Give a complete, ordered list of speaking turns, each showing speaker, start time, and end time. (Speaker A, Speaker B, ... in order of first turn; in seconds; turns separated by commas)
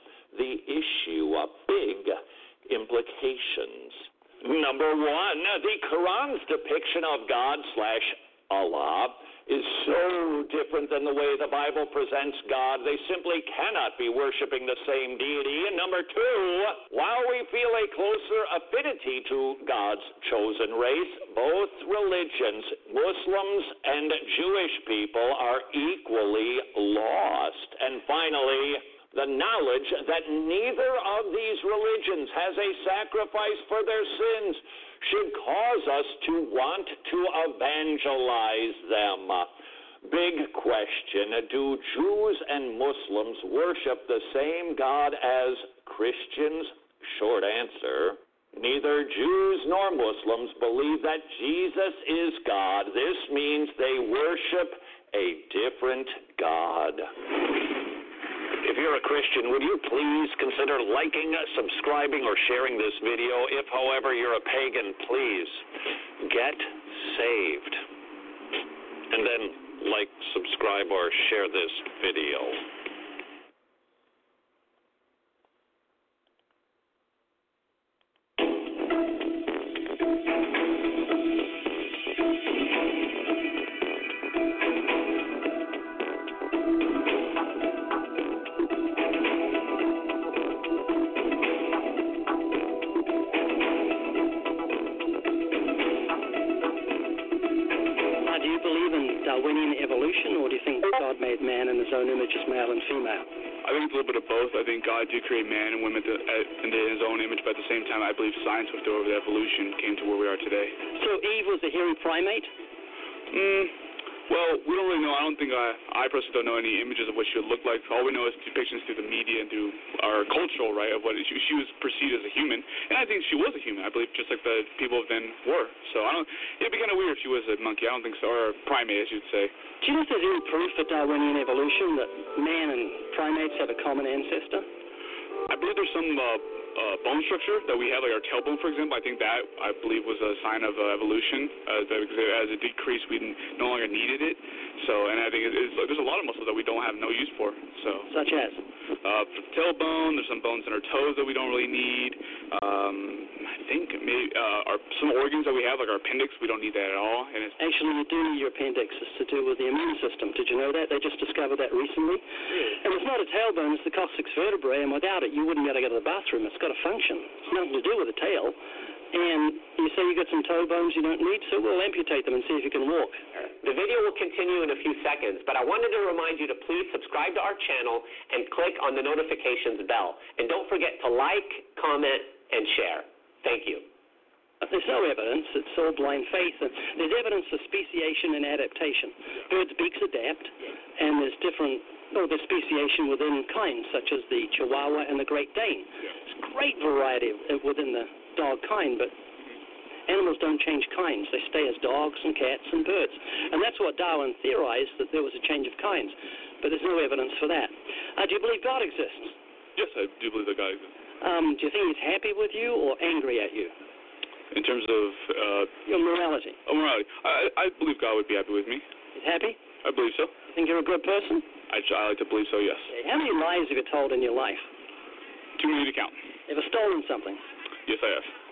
Speaker A: 0.3-39.5, Speaker A: 40.0-57.1, Speaker A: 58.6-65.6, Speaker A: 66.2-67.8, Speaker A: 69.1-72.6, Speaker B: 98.2-103.3, Speaker C: 103.6-110.8, Speaker B: 111.0-112.5, Speaker C: 113.3-113.7, Speaker C: 114.3-129.5, Speaker B: 129.8-134.7, Speaker C: 135.5-148.1, Speaker B: 148.1-148.6, Speaker C: 149.0-157.6, Speaker B: 157.6-162.2, Speaker B: 162.8-168.6, Speaker B: 169.1-173.2, Speaker D: 173.6-183.9, Speaker B: 184.6-195.9, Speaker B: 196.4-199.1, Speaker B: 200.1-209.4, Speaker C: 209.8-210.9, Speaker B: 211.2-213.7, Speaker C: 214.5-215.8, Speaker B: 215.8-216.6, Speaker C: 216.7-218.8, Speaker B: 219.2-219.6, Speaker C: 219.8-220.3, Speaker B: 220.5-221.5, Speaker C: 221.7-222.9, Speaker B: 222.9-224.7, Speaker C: 225.6-226.2, Speaker B: 226.5-227.4, Speaker C: 227.9-228.3